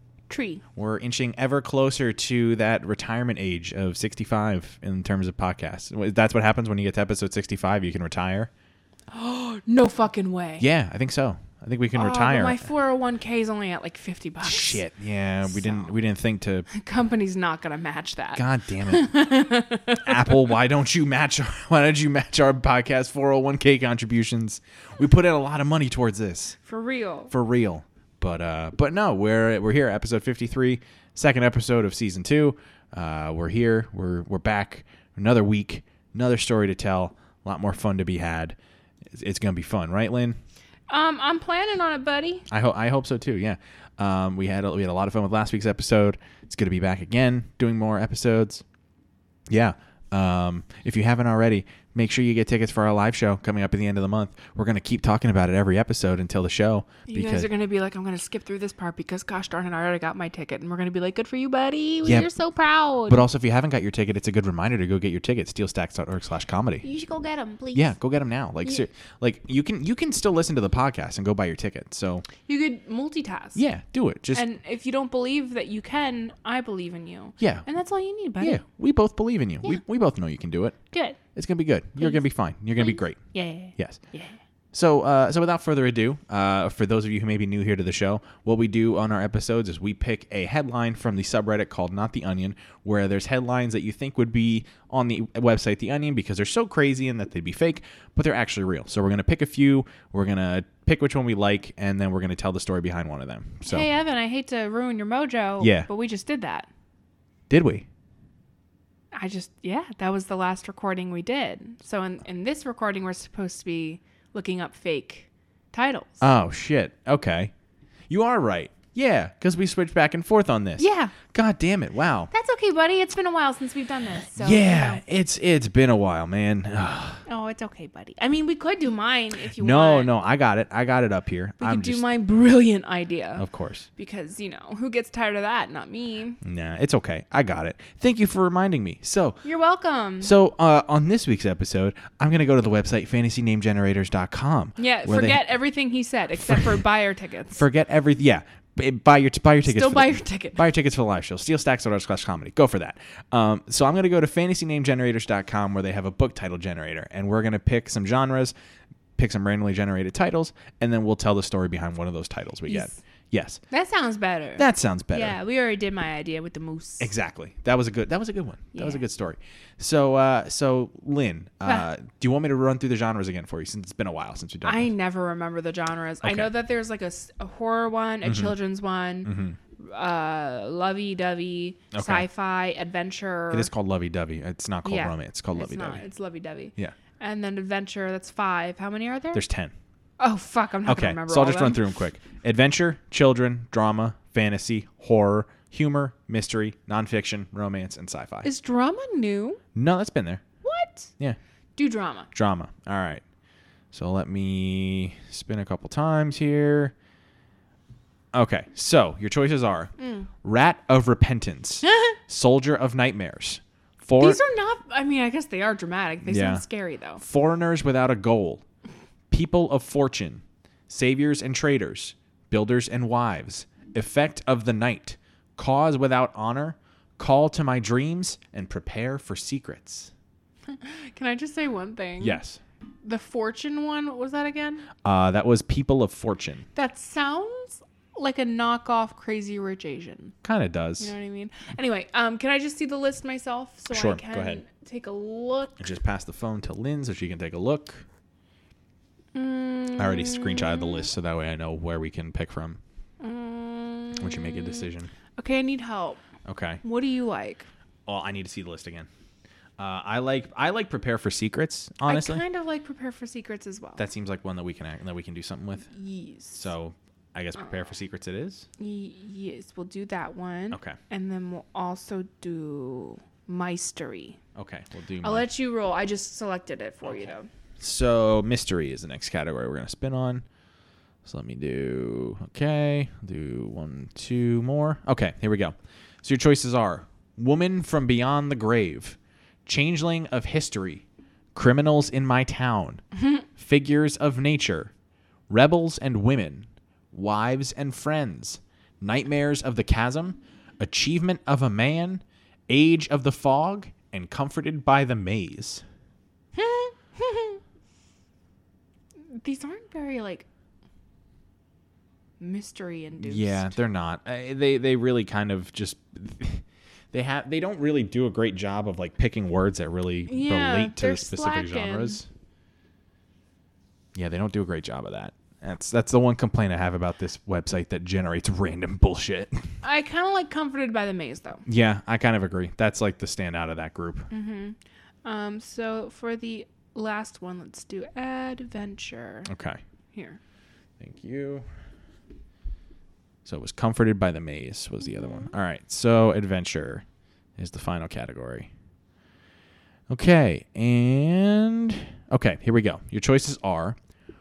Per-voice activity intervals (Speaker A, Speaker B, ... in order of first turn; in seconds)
Speaker A: 0.3-0.6, 9.1-10.7, 11.9-14.8, 15.5-15.9, 16.7-20.4, 26.6-27.3, 40.9-42.5, 57.1-63.2, 66.8-67.9, 72.5-73.6, 74.3-78.6, 80.9-81.2, 82.0-82.2, 82.8-84.4, 103.7-106.7, 109.1-116.2, 120.8-121.2, 122.3-125.0, 127.3-130.1, 131.6-133.4, 134.0-136.4, 139.4-140.3, 144.8-147.6, 149.7-150.7, 162.7-163.0, 163.7-167.1, 168.7-169.0, 174.6-183.7, 184.8-189.4, 190.2-191.8, 198.4-199.6, 200.6-201.1, 201.8-202.3, 210.0-210.3, 211.8-212.2, 214.2-217.2, 230.7-232.4, 233.0-234.9, 236.8-240.3, 241.0-245.9, 249.3-251.1, 253.2-256.2, 256.8-257.7, 262.1-264.0, 265.9-266.7, 268.8-274.4, 275.2-277.5, 306.6-307.6, 309.3-310.5, 312.4-313.8, 320.3-322.2, 329.8-331.6, 334.3-339.5, 340.1-340.4
Speaker B: 0.8-8.5, 10.6-12.6, 14.4-16.7, 18.4-19.3, 20.0-26.6, 27.3-38.6, 39.1-40.4, 42.5-48.6, 49.5-57.5, 63.1-66.8, 67.7-72.3, 73.6-74.5, 77.4-77.7, 78.4-80.8, 81.3-83.2, 84.7-103.9, 105.6-105.9, 107.5-107.9, 116.2-117.5, 118.1-122.3, 124.3-127.2, 129.6-132.0, 133.4-133.9, 136.4-139.4, 140.2-145.5, 146.4-146.8, 147.5-158.6, 159.2-163.6, 164.6-165.4, 167.0-174.9, 176.2-176.5, 178.2-178.6, 179.2-179.6, 181.9-182.3, 183.5-186.1, 189.3-189.7, 190.9-198.5, 199.8-200.4, 202.3-203.2, 203.9-206.9, 208.3-209.9, 210.4-214.4, 216.2-216.6, 217.2-218.6, 219.3-230.1, 232.2-232.6, 235.0-236.7, 240.4-241.1, 243.9-244.6, 245.8-248.1, 250.0-252.8, 254.2-255.1, 256.4-256.8, 258.1-259.1, 259.8-262.4, 264.0-265.9, 266.6-268.7, 270.7-271.0, 274.6-275.5, 277.8-280.4, 281.2-291.0, 291.6-293.0, 293.6-294.9, 295.5-305.8, 313.2-322.3, 324.1-329.6, 331.7-334.3, 339.5-339.8, 341.0-341.7, 343.4-347.1, 347.6-348.7, 350.1-354.0